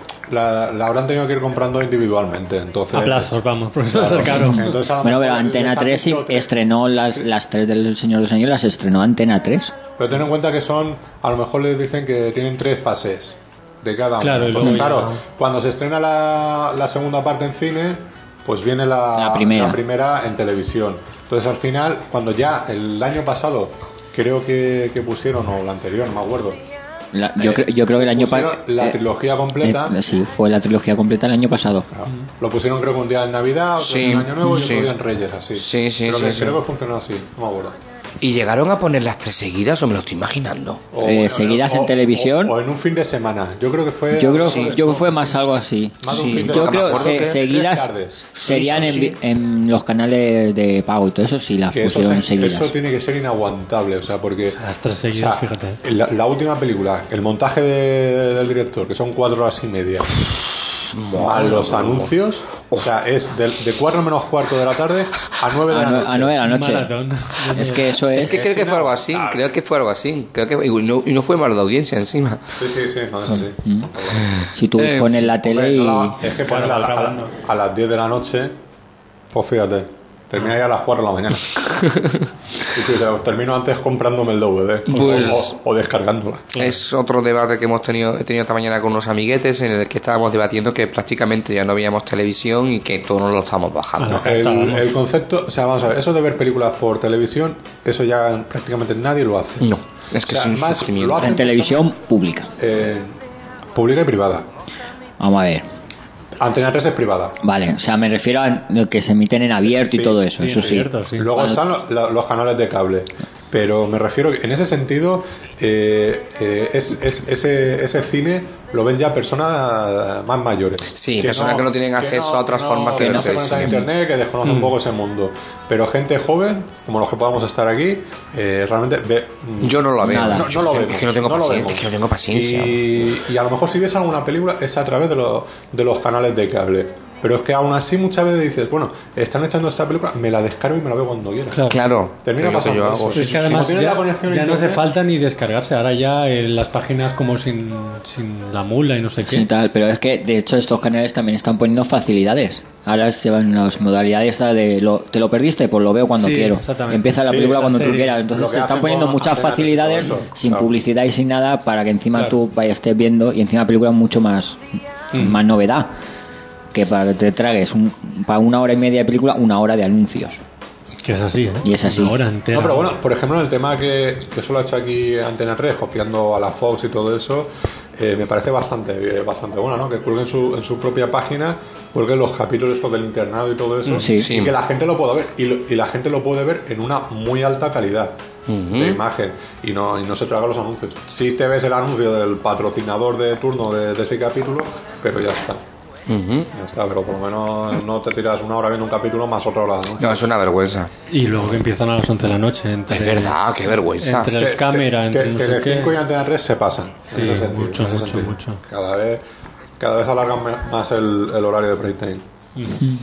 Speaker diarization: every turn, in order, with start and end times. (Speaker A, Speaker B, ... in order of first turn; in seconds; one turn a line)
Speaker A: 0.3-6.5
Speaker B: 2.9-4.8
Speaker C: 4.4-9.7
Speaker A: 10.0-26.6
Speaker B: 14.2-15.2
Speaker C: 19.1-19.8
Speaker C: 27.1-29.0
Speaker A: 27.4-30.0
Speaker C: 29.6-31.9
Speaker A: 31.9-37.8
Speaker D: 33.8-34.9
Speaker D: 35.6-36.6
Speaker D: 38.2-40.9
Speaker A: 40.9-45.4
Speaker C: 41.0-42.5
Speaker C: 44.1-52.8
Speaker D: 44.4-44.8
Speaker A: 46.0-49.1
Speaker D: 46.1-47.4
Speaker D: 48.4-49.1
Speaker A: 51.7-54.6
Speaker B: 54.6-55.8
Speaker A: 55.1-60.5
Speaker D: 60.9-62.1
Speaker A: 61.1-66.4
Speaker C: 65.7-66.9
Speaker B: 66.4-67.9
Speaker C: 67.5-68.5
Speaker D: 68.1-72.4
Speaker A: 68.2-69.4
Speaker A: 72.6-74.3
Speaker D: 74.2-75.1
Speaker C: 74.5-76.2
Speaker A: 75.2-78.5
Speaker B: 76.3-77.4
Speaker A: 79.3-81.6
Speaker A: 82.7-86.6
Speaker D: 84.9-85.5
Speaker B: 84.9-85.5
Speaker D: 86.6-94.2
Speaker B: 94.0-94.9
Speaker A: 94.1-99.7
Speaker D: 99.6-101.3
Speaker A: 100.2-101.9
Speaker C: 101.2-102.5
Speaker A: 102.6-103.1
Speaker A: 103.8-104.5
Speaker C: 105.2-105.6
Speaker A: 106.4-107.4
Speaker C: 107.4-111.6
Speaker A: 109.6-141.6
Speaker B: 110.4-111.3
Speaker D: 121.0-123.8
Speaker C: 123.0-123.9
Speaker B: 124.5-124.8
Speaker D: 129.6-133.1
Speaker C: 130.0-130.5
Speaker B: 141.5-141.8
Speaker D: 141.7-143.7
Speaker A: 142.2-144.8
Speaker B: 143.1-149.5
Speaker C: 149.2-165.9
Speaker B: 156.2-158.2
Speaker A: 157.2-157.7
Speaker A: 158.2-160.7
Speaker B: 165.1-165.4
Speaker C: 166.7-170.4
Speaker B: 171.0-172.9
Speaker C: 171.6-172.2
Speaker A: 172.5-188.2
Speaker C: 184.0-184.3
Speaker D: 184.2-184.6
Speaker D: 188.5-189.0
Speaker A: 188.7-195.6
Speaker D: 196.1-196.5
Speaker A: 196.5-200.2
Speaker D: 200.0-200.9
Speaker B: 201.1-203.4
Speaker D: 202.9-204.3
Speaker B: 204.0-206.0
Speaker A: 204.4-209.2
Speaker B: 207.1-208.6
Speaker A: 209.8-212.2
Speaker B: 212.6-212.8